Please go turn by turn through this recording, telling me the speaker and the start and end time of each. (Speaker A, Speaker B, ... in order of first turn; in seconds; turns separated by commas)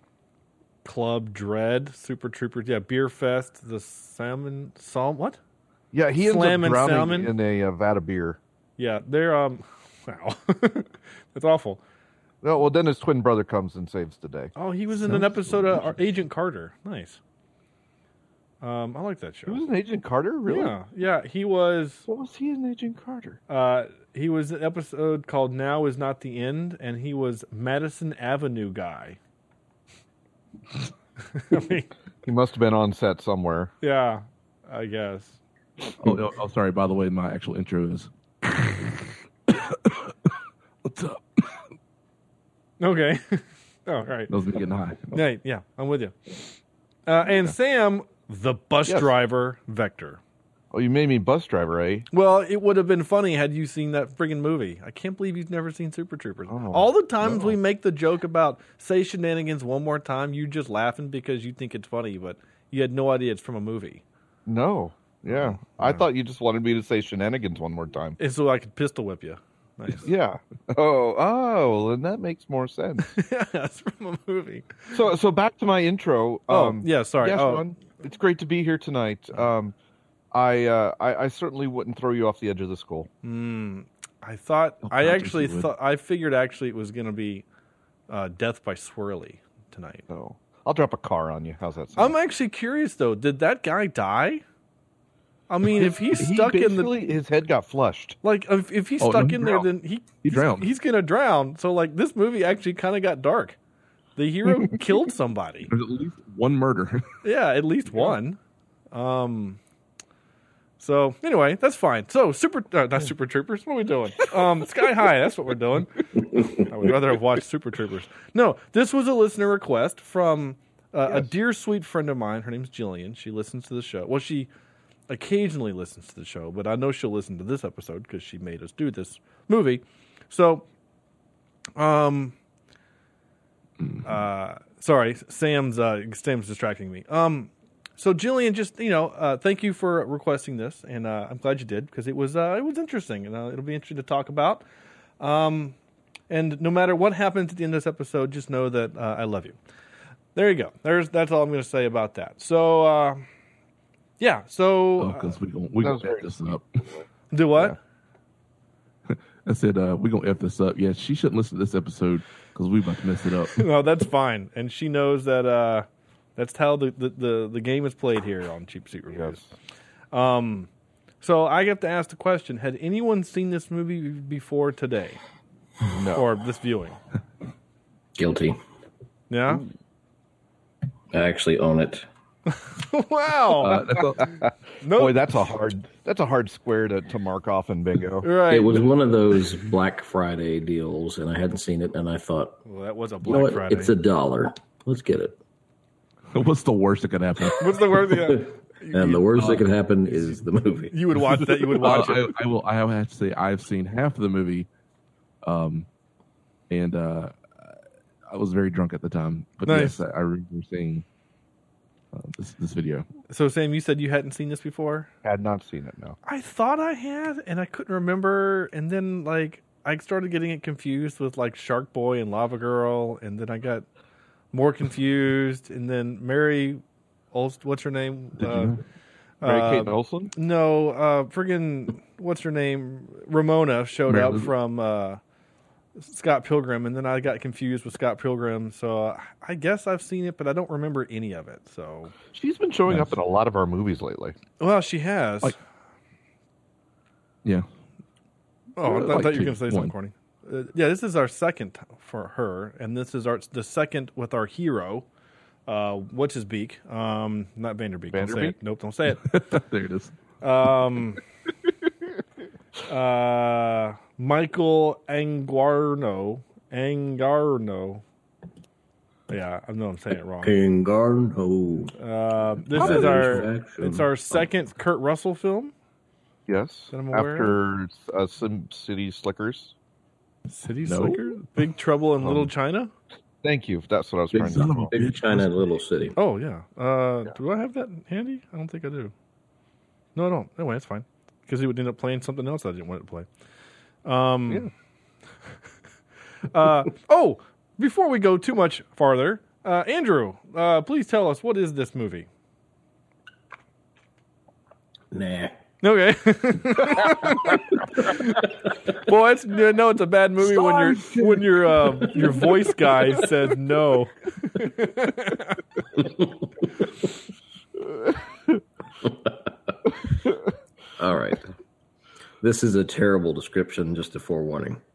Speaker A: 0.8-5.4, Speaker B: 5.9-8.4, Speaker A: 6.2-7.3, Speaker A: 8.8-11.8, Speaker B: 12.4-15.9, Speaker A: 14.6-17.2, Speaker A: 18.6-19.6, Speaker B: 19.5-20.8, Speaker A: 20.5-22.1, Speaker B: 22.1-23.4, Speaker A: 23.5-29.2, Speaker A: 31.3-31.9, Speaker B: 32.2-33.7, Speaker A: 33.8-35.4, Speaker C: 36.0-40.3, Speaker C: 40.8-41.6, Speaker A: 42.8-44.3, Speaker C: 44.3-45.2, Speaker A: 45.1-46.4, Speaker A: 47.1-50.2, Speaker B: 48.9-49.1, Speaker B: 50.7-52.1, Speaker A: 52.1-64.0, Speaker B: 56.5-57.6, Speaker B: 64.5-68.2, Speaker A: 65.3-66.0, Speaker A: 68.2-70.1, Speaker B: 70.0-73.1, Speaker A: 73.1-74.7, Speaker B: 74.9-79.8, Speaker A: 76.5-77.7, Speaker B: 80.3-83.1, Speaker A: 83.2-87.5, Speaker C: 84.8-85.7, Speaker A: 88.1-90.0, Speaker B: 90.1-92.2, Speaker A: 92.0-94.4, Speaker A: 95.5-96.9, Speaker B: 95.7-98.2, Speaker A: 98.2-103.6, Speaker C: 99.0-100.7, Speaker A: 104.2-105.7, Speaker C: 105.7-107.1, Speaker A: 107.2-108.4, Speaker A: 108.9-109.6, Speaker A: 110.8-124.5, Speaker A: 125.1-130.7, Speaker A: 131.8-132.3, Speaker C: 133.8-134.2, Speaker A: 134.1-144.6, Speaker A: 145.2-145.8, Speaker A: 146.3-149.6, Speaker A: 150.3-153.3, Speaker A: 154.2-155.4, Speaker C: 155.0-156.7, Speaker B: 155.8-157.0, Speaker A: 157.3-157.8, Speaker C: 159.1-163.7, Speaker A: 163.6-169.5, Speaker B: 169.1-169.5, Speaker A: 170.1-170.7, Speaker A: 171.2-175.2, Speaker B: 175.9-176.3, Speaker A: 176.1-177.0, Speaker D: 178.2-178.6, Speaker A: 179.3-179.6, Speaker D: 181.1-182.1, Speaker A: 182.6-183.8, Speaker C: 183.6-184.3, Speaker A: 184.8-185.4, Speaker B: 184.9-188.3, Speaker A: 188.2-188.8, Speaker D: 188.5-192.6, Speaker A: 192.7-193.9, Speaker D: 193.2-195.4, Speaker C: 196.3-197.7, Speaker A: 197.6-202.3, Speaker D: 198.1-200.9, Speaker C: 201.7-204.7, Speaker C: 205.4-205.9, Speaker C: 206.7-207.7, Speaker C: 208.3-211.1, Speaker A: 209.7-210.0, Speaker C: 212.1-213.1, Speaker A: 213.3-215.1, Speaker B: 215.2-216.2, Speaker A: 216.3-223.9, Speaker A: 224.5-226.8, Speaker A: 227.3-228.8, Speaker C: 228.4-228.8, Speaker B: 229.4-230.3, Speaker A: 229.4-235.2, Speaker C: 234.1-234.5, Speaker A: 236.0-242.1, Speaker B: 242.3-244.4, Speaker C: 242.9-243.2, Speaker A: 244.6-245.6, Speaker A: 248.8-255.1, Speaker C: 248.8-249.9, Speaker A: 255.7-259.2, Speaker B: 258.1-258.6, Speaker C: 259.2-260.1, Speaker A: 260.4-261.2, Speaker A: 262.9-268.0, Speaker A: 269.3-270.6, Speaker D: 270.4-271.9, Speaker A: 272.0-275.7, Speaker C: 272.6-273.5, Speaker D: 272.8-274.1, Speaker B: 276.5-279.8, Speaker A: 276.9-277.6, Speaker A: 280.5-282.9, Speaker C: 280.9-281.5, Speaker B: 282.2-282.5, Speaker B: 283.4-284.9, Speaker C: 284.3-285.6, Speaker D: 284.9-286.1, Speaker A: 286.2-289.1, Speaker A: 290.2-293.3, Speaker A: 294.1-294.7, Speaker A: 296.5-302.3, Speaker D: 305.1-305.6, Speaker A: 305.8-308.4, Speaker A: 309.0-315.6, Speaker B: 310.4-311.6, Speaker D: 319.0-319.3, Speaker D: 321.0-321.5, Speaker D: 322.4-324.8